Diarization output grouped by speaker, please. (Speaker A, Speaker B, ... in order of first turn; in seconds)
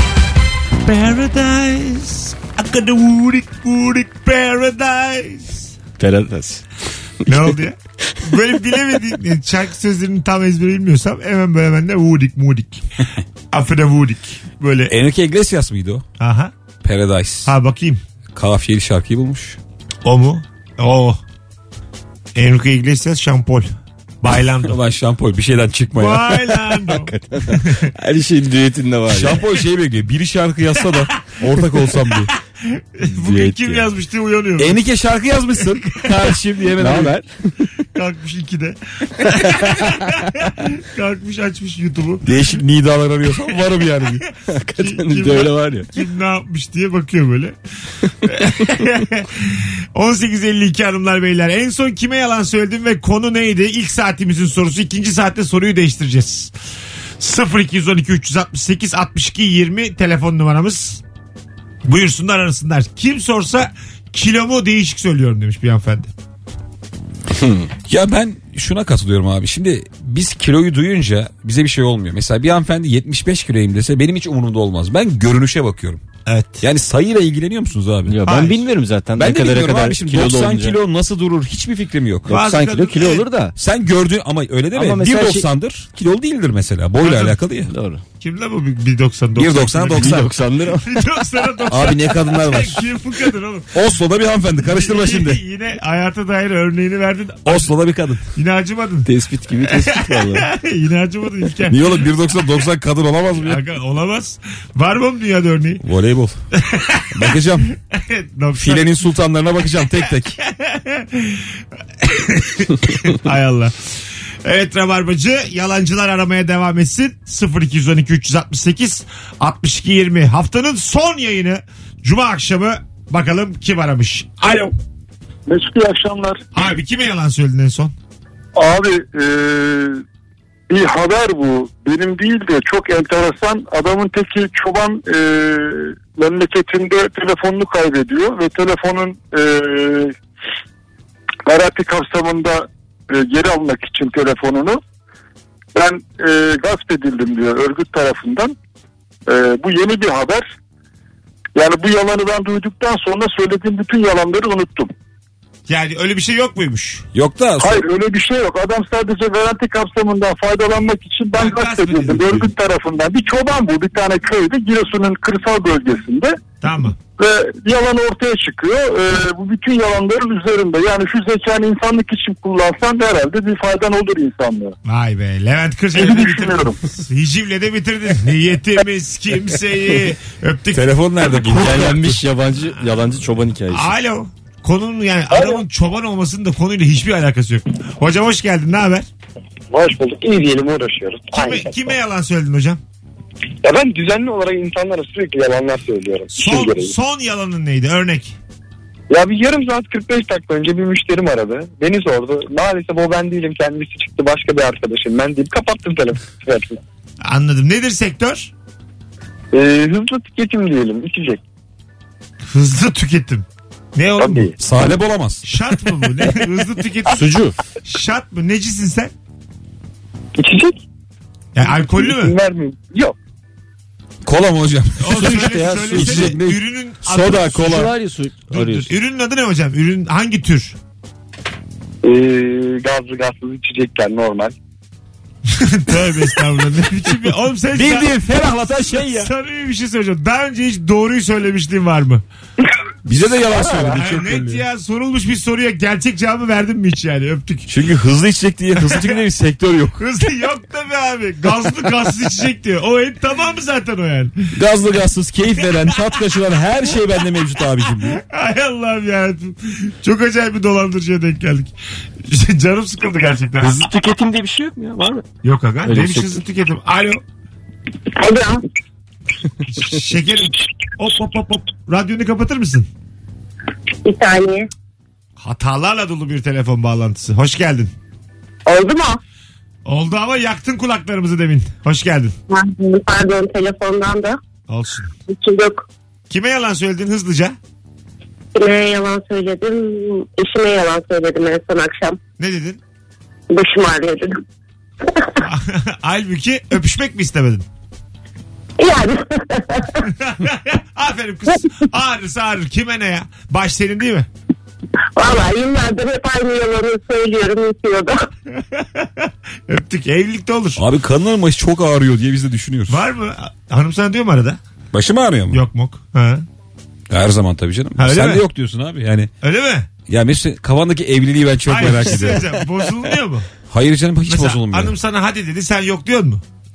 Speaker A: 0.8-5.7, 7.2-12.8, 13.5-14.9, 16.2-16.5, 17.4-18.0, 20.0-21.2, 22.4-24.8, 26.0-27.9, 32.7-34.8, 35.8-36.1, 37.9-42.3, 44.8-47.5, 48.2-56.5, 57.2-61.0, 61.8-66.1, 76.2-76.6, 78.2-78.6, 82.3-83.2, 87.0-87.4, 88.2-90.2, 90.8-93.7, 94.6-97.7, 98.3-99.1, 99.7-102.0, 103.4-105.8, 106.6-107.4, 107.9-108.9, 110.4-111.5, 112.0-113.7, 114.4-124.7, 126.5-127.9, 155.7-157.1, 161.3-162.5, 166.6-167.0, 174.8-181.5, 183.7-189.1, 191.3-192.8, 196.3-198.3, 207.2-208.5, 212.5-214.5, 215.4-217.3, 217.8-219.1, 221.5-222.3, 225.0-227.9, 228.5-230.8, 235.5-238.1, 239.0-242.2, 243.9-247.7, 248.8-249.2, 250.0-254.3, 255.8-256.2, 258.0-261.7, 262.2-263.8, 265.4-267.2, 269.6-272.9, 275.4-277.9, 279.9-282.3, 284.7-285.1, 286.3-287.5, 292.4-292.8, 295.4-297.6, 300.1-304.3, 308.6-310.8, 312.9-314.6, 315.5-316.4, 318.0-318.4, 319.4-319.9, 321.6-323.5, 324.3-326.4
Speaker B: 6.0-6.6, 26.9-29.4, 33.2-33.7, 36.8-37.2, 44.5-45.9, 67.3-67.7, 78.0-80.8, 82.3-83.5, 84.7-85.5, 87.7-88.0, 89.9-90.8, 99.0-100.5, 181.4-183.9, 217.1-217.5, 225.1-226.4, 227.1-228.9, 263.7-264.9, 265.9-266.2
Speaker C: 14.9-16.0, 16.8-17.5, 18.3-19.6, 24.7-26.6, 29.1-32.3, 34.6-37.2, 42.2-44.2, 67.9-76.0, 76.6-78.2, 79.2-82.4, 83.5-87.7, 89.3-90.3, 91.7-92.9, 93.7-95.4, 97.4-98.2, 101.7-103.6, 105.8-106.3, 107.1-107.7, 108.6-110.4, 157.1-157.8, 180.7-182.2, 214.6-215.4, 224.2-226.6, 237.7-239.3, 243.0-244.6, 247.7-250.0, 254.5-258.2, 263.7-265.2, 310.8-313.0, 314.9-315.6, 317.1-319.3, 320.1-322.6, 323.7-324.9
Speaker D: 125.5-126.4, 128.6-130.0, 130.7-140.1, 141.4-144.8, 145.8-148.5, 149.3-150.5, 151.6-154.9, 157.6-166.4, 167.2-174.7, 175.9-176.8
Speaker E: 185.3-185.6, 189.7-191.8, 193.6-196.9, 199.1-206.8, 209.5-211.4, 214.2-214.5, 220.4-220.8, 221.6-223.1, 232.0-234.5, 243.5-244.0
Speaker F: 268.1-268.6, 274.0-274.7, 278.6-279.2, 282.5-284.4, 285.3-285.8, 288.5-292.2, 293.5-294.4, 298.8-300.1, 305.1-308.3